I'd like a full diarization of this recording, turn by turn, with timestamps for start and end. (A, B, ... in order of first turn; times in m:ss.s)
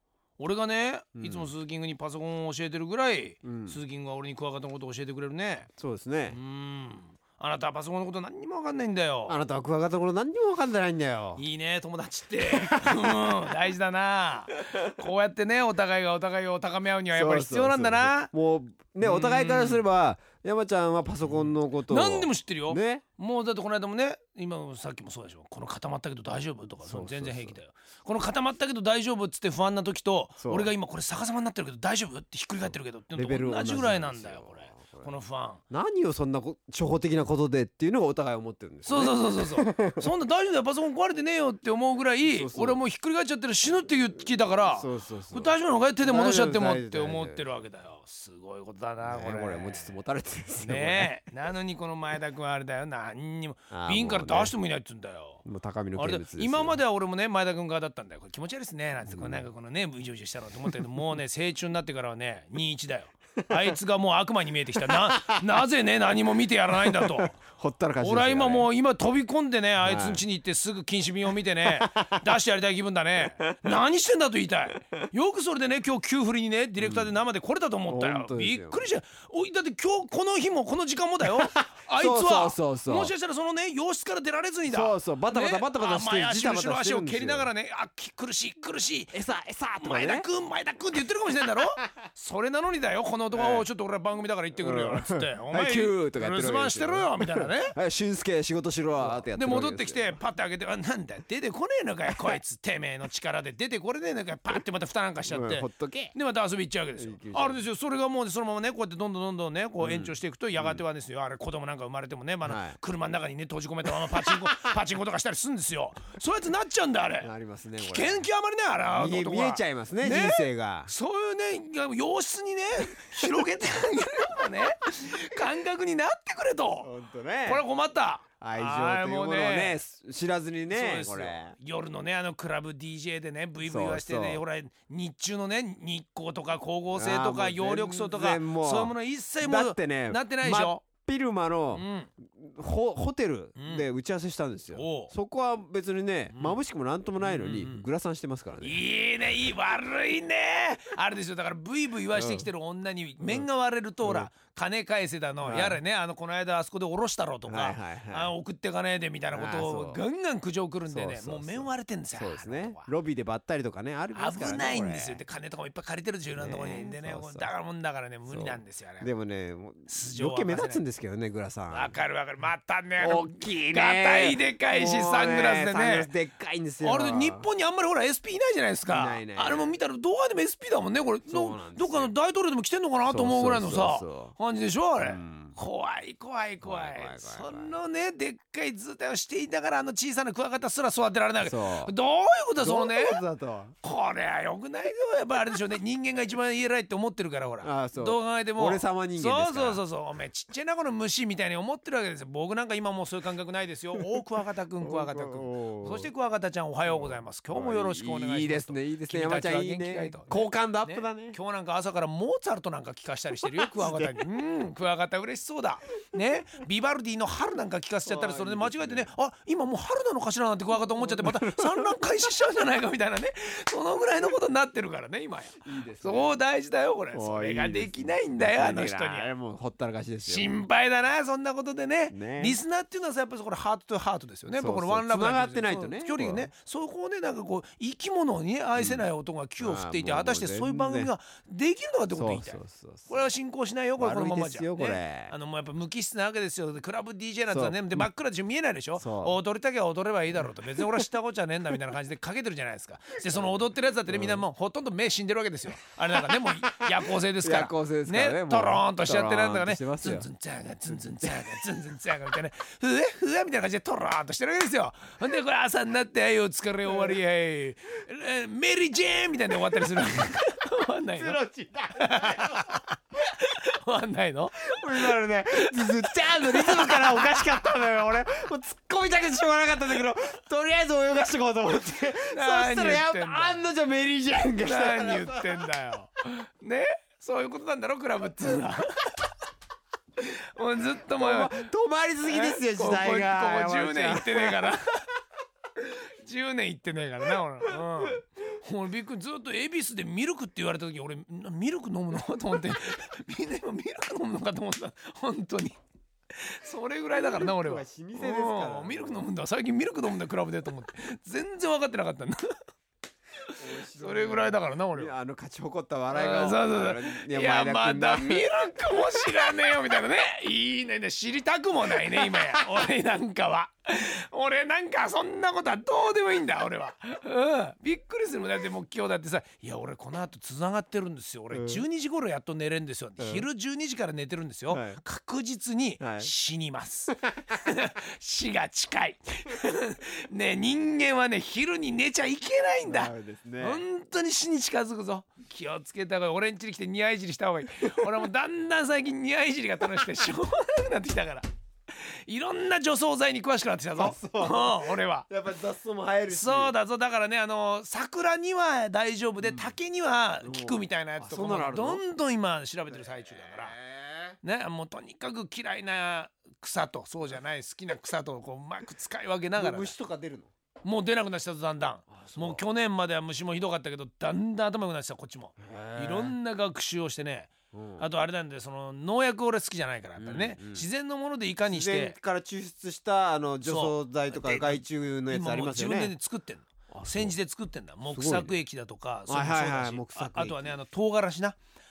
0:00.4-0:05.7 A
0:01.2-0:01.5 B
0:03.4-0:03.8 B
0:05.8-0:06.4 B
0:06.3-0:09.4 A
0:09.3-0:11.4 B
0:11.4-0:18.3 A
0:12.4-0:13.4 B
0:17.1-0:23.0 B
0:19.0-0:19.8 A
0:21.2-0:35.6 A
0:26.8-0:27.6 B
0:30.4-0:30.7 B
0:33.1-0:35.1 B
0:35.7-0:40.1 B
0:38.8-0:50.0 A
0:42.2-0:42.8 B
0:44.6-0:47.5 B
0:49.0-0:51.1 B
0:50.6-0:55.4 A
0:53.7-0:54.5 B
0:55.4-0:56.8 B
0:56.0-1:07.4 A
0:59.0-0:59.5 B
1:04.9-1:05.4 B
1:06.8-1:08.7 B
1:08.0-1:29.2 A
1:09.8-1:10.2 B
1:11.6-1:12.2 B
1:16.8-1:17.2 B
1:17.9-1:18.9 B
1:21.3-1:23.1 B
1:24.6-1:27.5 B
1:29.1-1:30.3 B
1:29.8-1:37.8 A
1:33.3-1:33.7 B
1:34.5-1:40.1 B
1:38.9-2:06.9 A
1:45.2-1:46.1 B
1:47.0-1:47.6 B
1:49.8-1:50.8 B
1:52.4-1:52.8 B
1:54.1-1:54.4 B
1:57.2-1:58.2 B
1:58.9-2:00.9 B
2:06.8-2:07.6 B
2:07.4-2:09.8 A
2:08.4-2:11.5 B
2:10.7-2:20.8 A
2:13.6-2:14.4 B
2:16.9-2:28.8 B
2:21.7-2:22.1 A
2:23.6-2:23.8 A
2:24.7-2:25.1 A
2:26.3-2:26.6 A
2:27.2-2:27.8 A
2:28.6-2:42.9 A
2:32.1-2:32.5 B
2:33.2-2:33.5 B
2:34.0-2:34.3 B
2:35.4-2:35.8 B
2:37.4-2:38.3 B
2:39.3-2:40.0 B
2:40.8-2:45.2 B
2:44.1-2:49.1 A
2:46.3-2:47.5 B
2:48.3-2:52.0 B
2:49.9-2:50.8 A
2:51.7-2:56.1 A
2:53.0-2:57.5 B
2:56.8-3:13.2 A
2:58.9-2:59.7 B
3:01.3-3:02.1 B
3:03.1-3:04.3 B
3:05.0-3:05.6 B
3:06.6-3:07.8 B
3:11.4-3:11.9 B
3:12.6-3:13.7 B
3:13.8-3:49.3 A
3:17.6-3:19.8 B
3:24.8-3:26.1 B
3:26.8-3:31.4 B
3:33.4-3:34.2 B
3:38.0-3:39.1 B
3:40.7-3:42.0 B
3:45.6-3:46.4 B
3:47.1-3:50.5 B
3:50.2-4:31.4 A
3:52.1-3:52.6 B
3:54.5-3:56.5 B
3:58.8-4:01.1 B
4:02.1-4:03.3 B
4:04.0-4:05.3 B
4:07.5-4:08.1 B
4:09.0-4:09.4 B
4:10.5-4:11.0 B
4:13.2-4:14.4 B
4:16.3-4:20.3 B
4:20.9-4:21.6 B
4:26.9-4:27.2 B
4:31.2-4:32.8 B
4:32.0-4:37.6 A
4:34.6-4:45.7 B
4:42.3-4:43.6 A
4:44.6-4:49.3 A
4:50.2-4:51.6 A
4:51.1-4:54.7 B
4:52.3-4:54.9 A
4:55.8-5:05.8 A
5:06.3-5:12.4 A
5:07.1-5:09.3 B
5:13.5-5:15.1 A
5:13.6-5:18.8 B
5:16.1-5:55.3 A
5:31.5-5:31.8 B
5:33.2-5:33.5 B
5:34.7-5:35.0 B
5:36.0-5:36.3 B
5:37.1-5:37.5 B
5:42.8-5:43.8 B
5:53.9-5:56.7 B
5:56.3-6:03.7 A
5:59.4-5:59.7 B
6:00.4-6:02.0 B
6:02.9-6:04.4 B
6:04.4-6:09.9 A
6:09.6-6:10.5 B
6:10.8-6:22.2 A
6:12.1-6:12.6 B
6:15.6-6:16.3 B
6:17.7-6:18.0 B
6:20.2-6:20.9 B
6:21.6-6:26.1 B
6:23.6-6:31.6 A
6:26.9-6:27.4 B
6:28.1-6:28.6 B
6:29.3-6:30.8 B